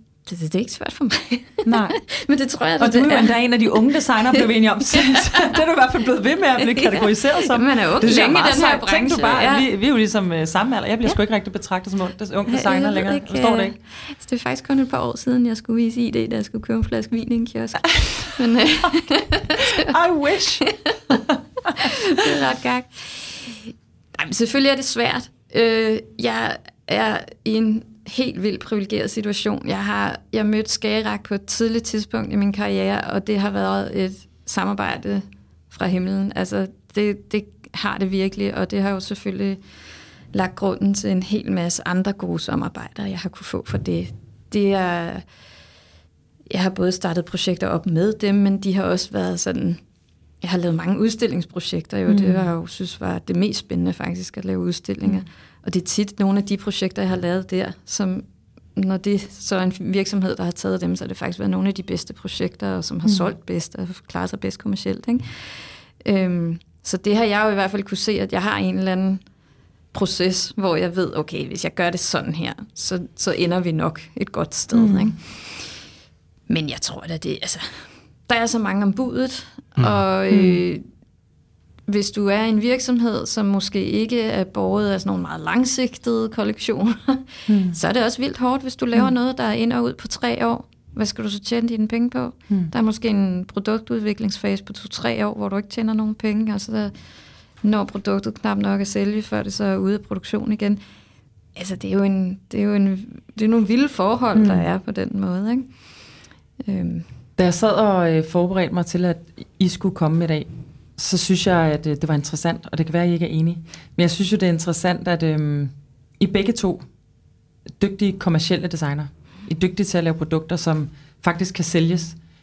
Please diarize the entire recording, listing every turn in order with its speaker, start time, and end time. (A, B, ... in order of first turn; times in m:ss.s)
0:00.3-0:03.3 A
0:01.7-0:02.0 B
0:02.8-0:13.7 B
0:04.3-0:05.6 A
0:06.6-0:09.7 A
0:12.5-0:19.9 A
0:18.0-0:18.3 B
0:19.6-0:21.2 B
0:20.7-0:21.2 A
0:21.8-0:39.6 A
0:40.3-0:45.2 A
0:46.5-0:49.8 A
0:50.4-1:09.2 A
0:52.1-0:52.5 B
1:09.9-1:15.8 A
1:14.7-1:15.2 B
1:16.5-1:20.8 A
1:20.3-1:20.6 B
1:21.9-1:36.9 A
1:27.5-1:27.8 B
1:37.6-1:40.8 A
1:41.6-1:45.7 A
1:44.3-1:44.7 B
1:46.6-1:47.1 A
1:47.4-1:56.8 B
1:57.8-2:02.2 B